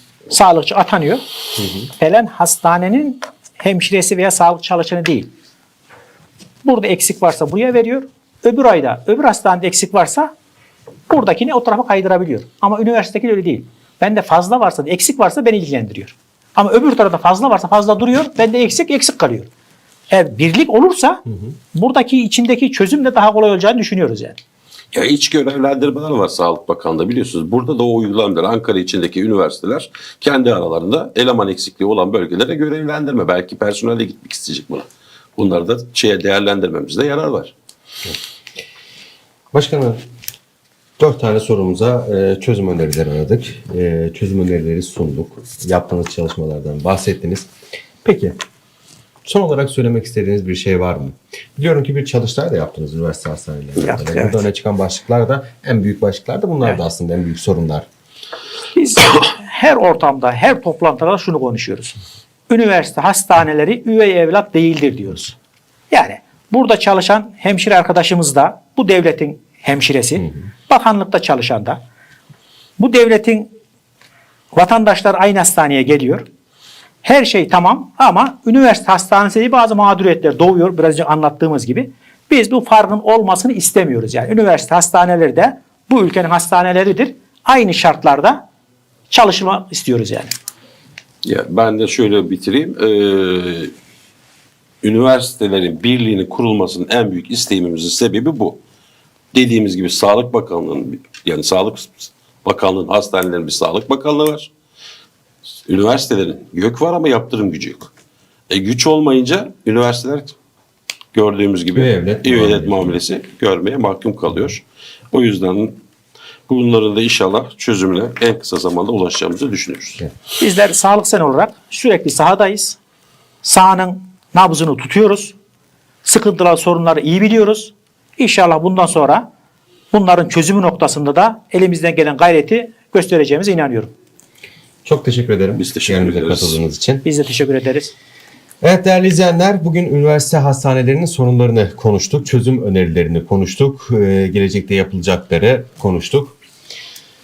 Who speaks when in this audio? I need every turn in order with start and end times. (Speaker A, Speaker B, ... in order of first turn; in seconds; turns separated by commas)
Speaker A: 0.3-1.2, Speaker A: 2.0-5.3, Speaker A: 6.6-10.3, Speaker A: 11.1-19.5, Speaker A: 20.1-21.2, Speaker A: 21.7-24.4, Speaker B: 24.9-37.5, Speaker C: 39.5-40.0, Speaker C: 41.0-47.5, Speaker C: 48.0-48.4, Speaker C: 49.2-57.9, Speaker A: 53.8-54.4, Speaker A: 58.8-62.0, Speaker A: 62.5-65.4, Speaker A: 65.9-71.8, Speaker A: 72.8-73.5, Speaker A: 74.5-76.3, Speaker A: 77.0-88.5, Speaker A: 89.1-90.3, Speaker B: 91.2-93.7, Speaker B: 94.8-98.6, Speaker B: 99.3-104.5, Speaker B: 105.7-107.9, Speaker B: 108.5-110.3, Speaker B: 111.1-115.8, Speaker C: 111.8-113.0, Speaker B: 116.5-120.0, Speaker A: 120.4-122.8, Speaker A: 123.4-125.4, Speaker A: 126.0-129.3, Speaker A: 129.9-133.9, Speaker C: 134.8-137.1, Speaker B: 135.6-136.6, Speaker A: 137.1-137.9, Speaker C: 138.6-146.4